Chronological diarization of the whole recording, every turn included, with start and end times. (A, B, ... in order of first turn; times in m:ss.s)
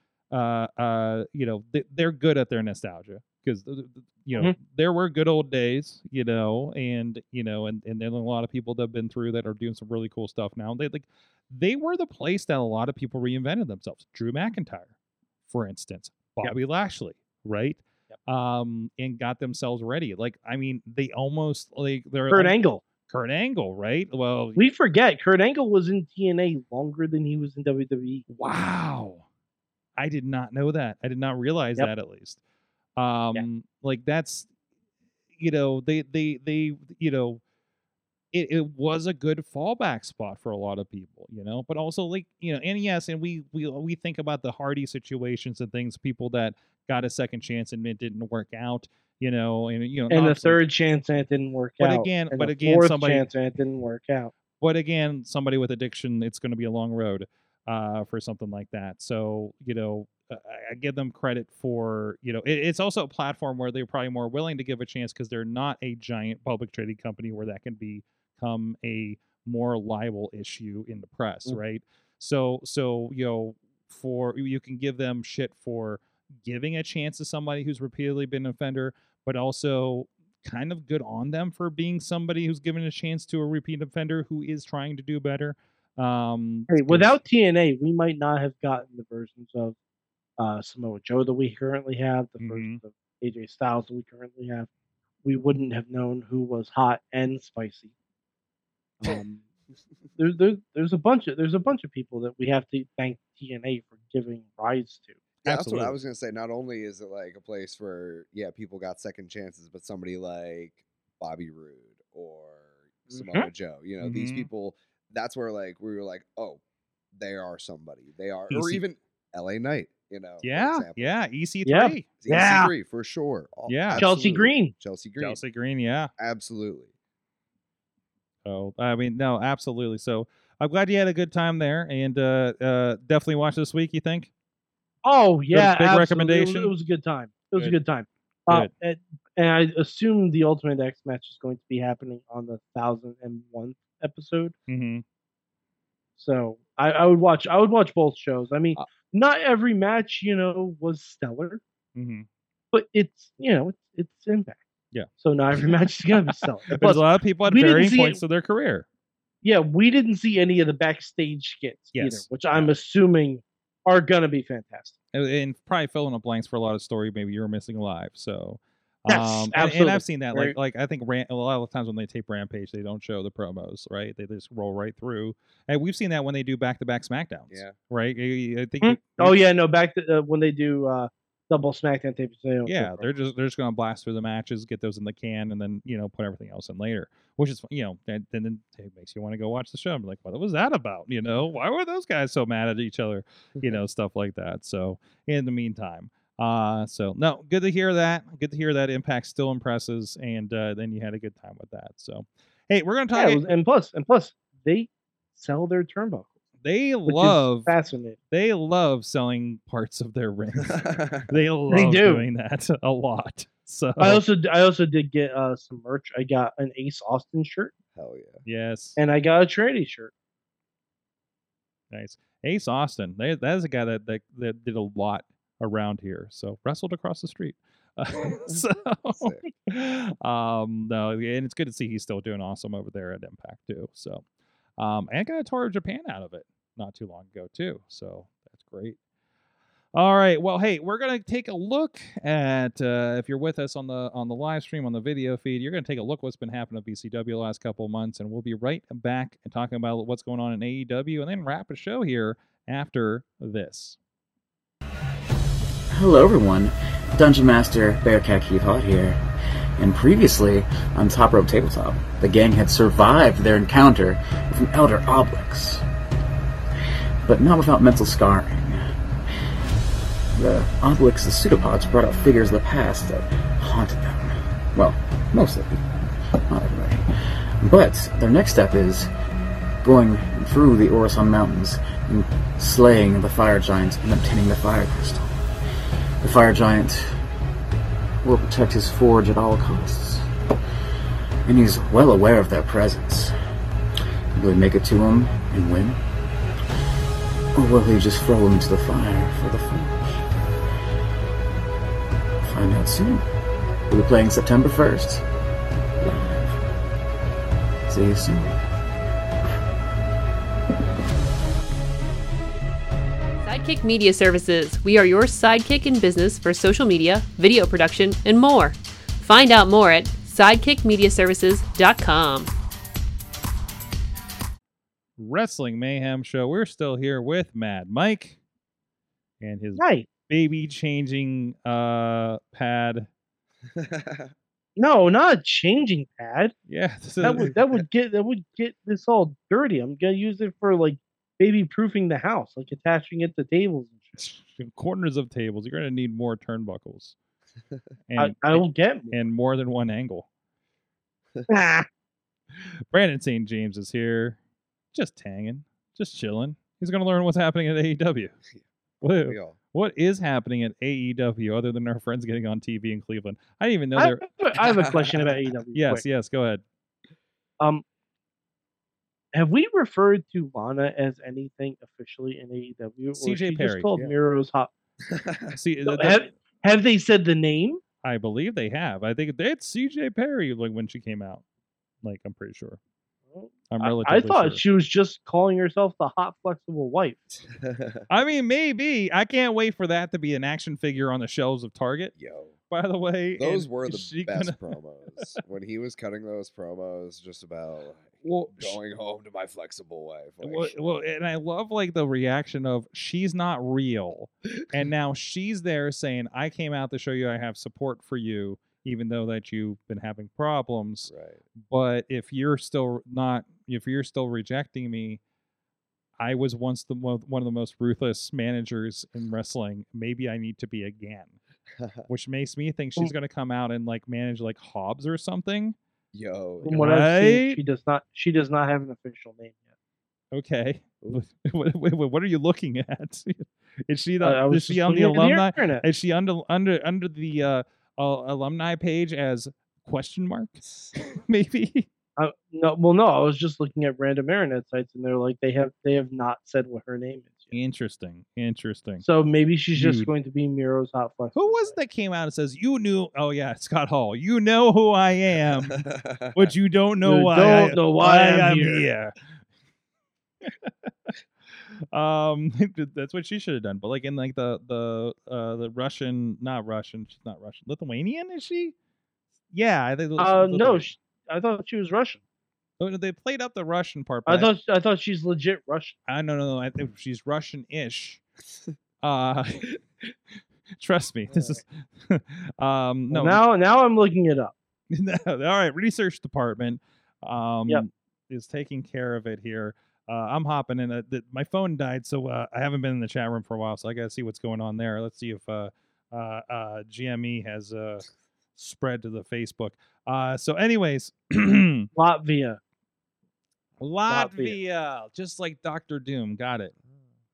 0:00.3-0:14.9 A
0:15.5-0:24.6 A
0:22.3-0:22.8 B
0:24.6-0:28.2 B
0:28.3-0:29.2 A
0:30.0-0:32.4 A
0:33.0-0:34.5 A
0:35.4-0:37.4 A
0:38.3-0:50.6 A
0:50.1-0:54.3 B
0:51.8-0:53.3 A
0:54.6-1:27.1 A
1:26.7-1:29.8 B
1:30.4-1:34.7 B
1:32.4-1:32.8 A
1:35.2-1:37.9 B
1:39.0-1:39.4 B
1:40.2-1:45.2 B
1:45.4-1:46.0 A
1:45.4-1:56.6 C
1:53.1-1:53.5 B
1:54.0-1:54.5 A
1:57.1-2:01.1 C
1:58.5-1:58.8 A
2:00.4-2:02.2 A
2:01.6-2:02.7 B
2:02.2-2:05.4 C
2:03.7-2:04.0 A
2:04.0-2:04.7 B
2:05.2-2:06.1 A
2:06.2-2:06.9 C
2:08.4-2:14.3 A
2:15.0-2:24.5 B
2:15.5-2:16.7 A
2:24.7-2:25.0 A
2:26.2-2:31.6 B
2:32.0-2:32.2 A
2:32.7-2:34.6 B
2:35.2-2:38.2 B
2:36.2-2:38.8 A
2:39.4-2:45.0 B
2:41.9-2:42.7 A
2:45.1-2:59.4 A
2:49.1-2:50.5 B
2:57.5-2:57.8 C
2:58.8-3:03.1 B
3:02.6-3:23.4 A
3:23.1-3:26.3 B
3:26.6-3:27.7 A
3:27.1-3:28.2 B
3:28.3-3:34.2 A
3:30.6-3:31.3 C
3:31.7-3:32.2 B
3:34.0-3:37.7 B
3:37.9-3:38.4 C
3:38.4-3:39.0 A
3:39.0-3:40.1 B
3:41.9-3:54.2 A
3:48.5-3:49.4 C
3:54.8-3:59.0 A
3:59.9-4:14.0 A
4:15.9-4:19.2 D
4:19.8-4:25.8 D
4:27.2-4:28.8 D
4:30.3-4:35.8 D
4:36.5-4:37.0 D
4:37.6-4:39.1 D
4:39.8-4:45.3 D
4:46.2-4:47.1 D
4:48.2-4:50.2 D
4:51.4-4:53.3 D
4:54.3-4:56.0 D
4:57.5-5:00.0 D
5:02.4-5:03.2 D
5:03.9-5:05.2 D
5:06.0-5:06.5 D
5:07.9-5:08.6 D
5:13.4-5:22.5 E
5:25.2-5:28.4 A
5:29.4-5:33.1 A
5:29.8-5:30.1 B
5:33.7-5:34.3 C
5:34.8-5:36.5 B
5:36.7-5:37.5 A
5:37.2-5:44.2 B
5:44.2-5:47.1 A
5:48.1-5:50.3 A
5:48.2-5:49.3 B
5:51.5-5:51.9 B
5:52.9-5:54.4 A
5:54.9-5:58.4 A
5:59.0-6:04.2 A
5:59.2-5:59.6 C
6:04.0-6:06.0 B
6:04.6-6:05.4 C
6:05.7-6:06.6 A
6:09.3-6:14.7 B
6:13.2-6:13.9 A
6:15.0-6:15.5 C
6:15.5-6:16.2 A
6:15.8-6:17.8 B
6:18.0-6:21.4 A
6:22.0-6:22.8 A
6:23.3-6:27.3 B
6:23.7-6:24.6 A
6:27.5-6:28.0 C
6:28.1-6:32.1 A
6:32.2-6:32.5 C
6:32.7-6:34.7 A
6:33.4-6:40.7 C
6:38.2-6:38.8 A
6:40.4-6:51.1 A
6:51.1-6:51.4 C
6:51.6-6:55.2 A
6:56.2-7:01.4 A
7:02.1-7:05.8 A
7:06.1-7:06.8 C
7:06.6-7:09.6 B
7:06.7-7:07.6 A
7:10.3-7:21.9 A
7:14.2-7:15.8 B
7:22.2-7:27.5 B
7:27.5-7:29.0 A
7:29.0-7:31.8 B
7:29.7-7:30.1 A
7:31.3-7:39.2 A
7:35.7-7:36.4 C
7:37.0-7:38.8 B
7:40.4-7:40.9 A
7:41.5-7:48.7 A
7:49.5-7:50.9 A
7:50.2-7:52.2 B
7:52.8-7:54.5 A
7:54.2-7:56.0 B
7:56.1-7:58.2 A
7:59.0-7:59.7 A
8:00.8-8:03.4 A
8:01.3-8:01.6 B
8:03.1-8:04.5 B
8:04.9-8:21.9 A
8:21.9-8:22.6 B
8:23.8-8:26.7 A
8:24.1-8:24.6 B